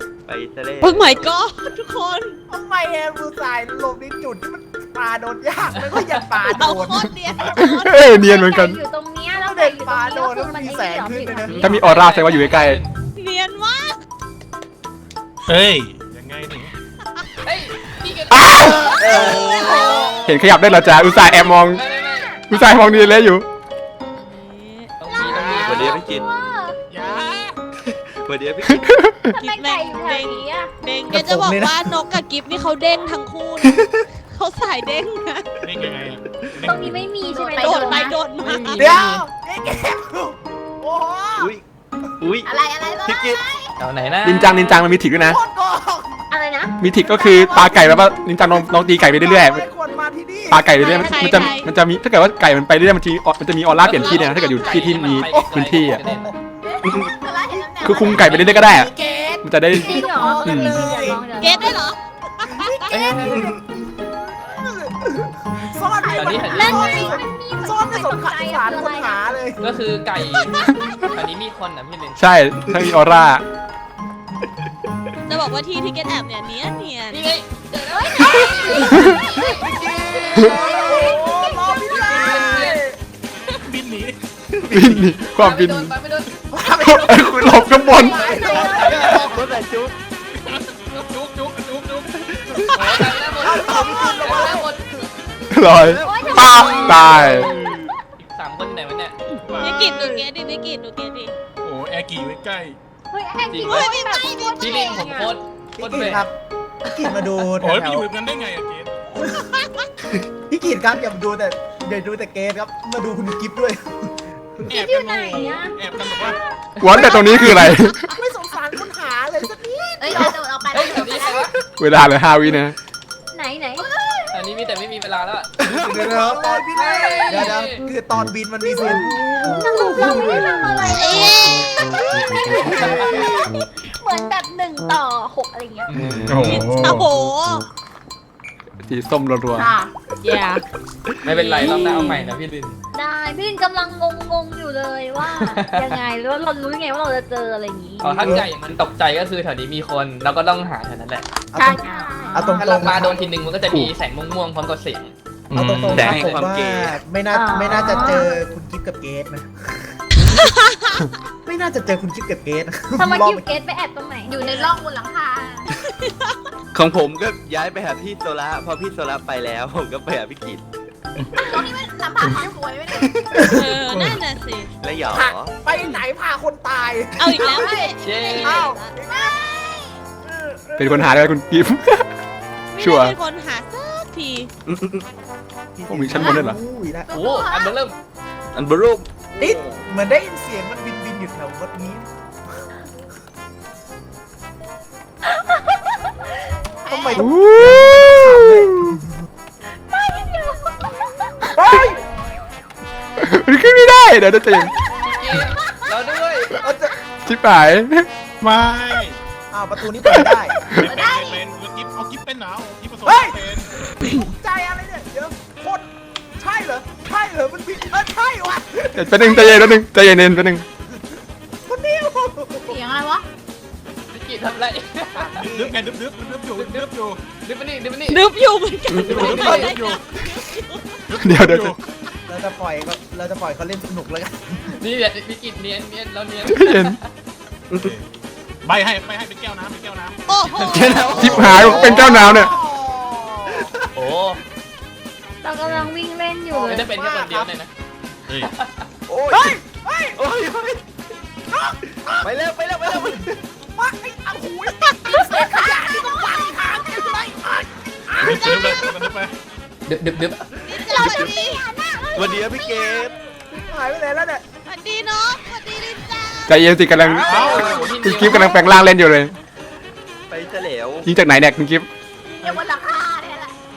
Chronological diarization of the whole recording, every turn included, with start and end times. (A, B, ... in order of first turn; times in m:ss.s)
0:00.3-0:01.4 A
0:00.8-0:02.4 B
0:02.5-0:07.2 C
0:06.4-0:08.2 B
0:07.5-0:08.8 D
0:08.0-0:11.6 E
0:09.4-0:11.8 C
0:11.5-0:12.9 F
0:11.6-0:12.8 D
0:13.2-0:14.0 B
0:15.5-0:16.7 G
0:17.4-0:19.7 F
0:18.5-0:20.4 C
0:18.6-0:19.8 A
0:18.9-0:20.2 B
0:19.0-0:20.2 E
0:20.2-0:21.8 D
0:21.5-0:22.5 E
0:21.7-0:22.9 F
0:22.5-0:23.5 D
0:24.2-0:25.3 B
0:25.0-0:26.0 F
0:25.1-0:26.8 E
0:25.2-0:25.8 G
0:25.6-0:26.3 A
0:26.9-0:27.6 G
0:27.8-0:29.0 A
0:28.9-0:29.3 D
0:29.4-0:30.7 E
0:29.4-0:35.5 B
0:31.1-0:32.0 C
0:35.6-0:37.0 G
0:36.6-0:38.1 E
0:37.2-0:38.2 H
0:37.6-0:39.0 B
0:38.4-0:39.2 F
0:38.8-0:41.5 C
0:41.4-0:41.6 A
0:42.2-0:42.5 A
0:42.4-0:43.7 H
0:43.0-0:43.4 A
0:43.8-0:44.7 F
0:44.2-0:45.4 D
0:45.2-0:46.2 C
0:46.3-0:46.8 E
0:46.8-0:49.6 D
0:47.2-0:51.4 C
0:50.5-0:56.0 D
0:50.8-0:51.7 B
0:53.8-0:56.3 F
0:54.0-0:55.1 B
0:55.3-0:56.4 C
0:56.6-0:59.5 H
0:57.8-0:58.9 D
0:58.1-0:58.9 F
0:59.4-1:00.9 D
0:59.7-1:01.8 E
0:59.8-1:01.3 C
1:01.4-1:02.8 B
1:02.4-1:09.6 C
1:02.9-1:03.5 F
1:03.1-1:03.6 A
1:05.8-1:07.2 H
1:06.1-1:07.1 F
1:06.4-1:09.4 E
1:09.6-1:12.2 F
1:12.2-1:13.4 D
1:15.3-1:17.4 B
1:17.1-1:21.3 F
1:17.9-1:22.6 E
1:18.6-1:19.0 C
1:19.6-1:20.8 A
1:20.2-1:23.0 C
1:21.8-1:22.8 F
1:23.5-1:24.2 G
1:24.5-1:25.1 A
1:24.7-1:25.9 D
1:25.3-1:26.4 F
1:26.5-1:29.5 C
1:26.8-1:28.3 D
1:27.8-1:29.3 E
1:28.4-1:29.3 F
1:28.6-1:30.0 A
1:30.3-1:32.1 G
1:32.3-1:32.7 A
1:32.7-1:33.4 G
1:32.7-1:35.1 F
1:33.4-1:34.7 C
1:33.4-1:34.7 A
1:35.5-1:37.5 D
1:35.6-1:37.9 A
1:35.9-1:37.7 E
1:38.2-1:39.2 F
1:39.4-1:40.3 G
1:39.6-1:41.3 B
1:41.6-1:42.8 G
1:43.1-1:45.4 E
1:43.5-1:44.0 F
1:43.6-1:45.2 B
1:44.6-1:46.3 F
1:45.8-1:46.3 C
1:46.9-1:48.1 C
1:47.6-1:49.0 G
1:49.2-1:49.5 C
1:50.5-1:54.6 C
1:54.7-1:56.4 G
1:54.7-1:57.4 E
1:56.8-1:58.1 D
1:56.9-2:00.4 C
2:00.0-2:01.5 H
2:00.7-2:01.6 F
2:01.8-2:02.8 D
2:03.3-2:03.9 E
2:03.8-2:04.3 H
2:04.3-2:05.5 F
2:05.6-2:06.6 A
2:05.6-2:10.9 C
2:06.7-2:07.8 F
2:08.8-2:15.9 E
2:10.3-2:11.5 H
2:10.8-2:11.9 B
2:12.6-2:13.3 F
2:12.7-2:13.5 H
2:15.9-2:16.7 F
2:16.0-2:16.5 A
2:16.3-2:17.1 G
2:16.7-2:17.7 B
2:18.9-2:19.7 D
2:19.5-2:19.9 H
2:20.2-2:20.6 B
2:21.2-2:22.8 F
2:21.4-2:22.3 B
2:22.9-2:28.4 E
2:25.4-2:26.0 F
2:28.0-2:31.3 F
2:31.5-2:33.9 C
2:31.6-2:33.2 H
2:31.6-2:32.8 E
2:32.6-2:35.1 F
2:35.5-2:36.2 G
2:35.6-2:40.0 C
2:35.9-2:37.0 A
2:37.3-2:38.4 E
2:37.7-2:38.1 G
2:41.4-2:43.5 C
2:43.0-2:44.8 E
2:44.3-2:45.7 H
2:46.7-2:50.6 A
2:51.2-2:51.7 G
2:51.4-2:53.5 H
2:53.0-2:53.4 A
2:53.4-2:54.7 B
2:53.9-2:54.2 G
2:54.8-2:55.5 A
2:55.1-2:59.4 C
2:55.7-2:56.0 B
2:57.2-2:59.0 B
2:57.4-2:57.9 H
2:58.0-2:58.7 F
2:59.0-3:00.0 H
3:00.2-3:01.3 C
3:00.8-3:02.1 D
3:02.7-3:04.5 B
3:02.8-3:03.2 D
3:04.7-3:05.1 A
3:05.8-3:07.1 C
3:05.9-3:06.6 D
3:06.1-3:06.5 H
3:07.1-3:07.8 H
3:07.1-3:08.0 F
3:08.5-3:09.8 A
3:09.4-3:12.6 C
3:15.2-3:16.3 E
3:16.8-3:19.1 C
3:16.9-3:17.3 H
3:17.2-3:18.1 D
3:19.9-3:22.0 E
3:21.5-3:22.0 C
3:23.2-3:24.7 D
3:24.9-3:26.6 F
3:26.6-3:27.0 C
3:27.2-3:28.1 D
3:28.4-3:29.2 G
3:29.5-3:30.8 C
3:30.1-3:30.4 D
3:30.8-3:33.7 G
3:30.8-3:31.5 H
3:33.0-3:33.4 C
3:34.0-3:39.8 C
3:38.9-3:40.6 D
3:40.9-3:41.1 C
3:41.7-3:42.8 C
3:42.6-3:43.2 H
3:44.1-3:45.4 F
3:45.2-3:45.8 C
3:45.5-3:47.2 G
3:46.5-3:46.9 F
3:47.4-3:48.2 F
3:48.1-3:51.0 B
3:48.9-3:49.3 A
3:49.0-3:50.0 G
3:49.1-3:49.8 F
3:51.1-3:51.8 G
3:51.2-3:51.8 D
3:52.3-3:54.7 C
3:54.8-3:57.1 F
3:56.5-3:57.0 D
3:57.7-3:58.0 A
3:57.8-3:58.1 G
3:58.6-4:01.4 G
4:00.3-4:01.4 B
4:00.6-4:02.4 A
4:01.2-4:02.5 D
4:01.2-4:03.7 C
4:03.5-4:03.8 A
4:04.0-4:04.4 F
4:05.4-4:06.9 E
4:06.5-4:07.5 C
4:06.6-4:07.7 F
4:08.4-4:08.9 F
4:09.1-4:09.6 A
4:09.3-4:10.2 C
4:10.2-4:10.9 A
4:11.5-4:18.9 C
4:12.2-4:13.4 A
4:15.1-4:17.4 H
4:18.1-4:19.3 G
4:19.9-4:20.4 F
4:20.6-4:21.6 A
4:20.6-4:22.5 B
4:22.1-4:23.2 A
4:23.5-4:24.4 C
4:24.7-4:26.6 B
4:26.5-4:29.4 D
4:27.2-4:27.8 G
4:27.2-4:28.6 F
4:27.2-4:27.9 A
4:30.3-4:31.1 A
4:31.0-4:31.9 D
4:32.3-4:33.5 H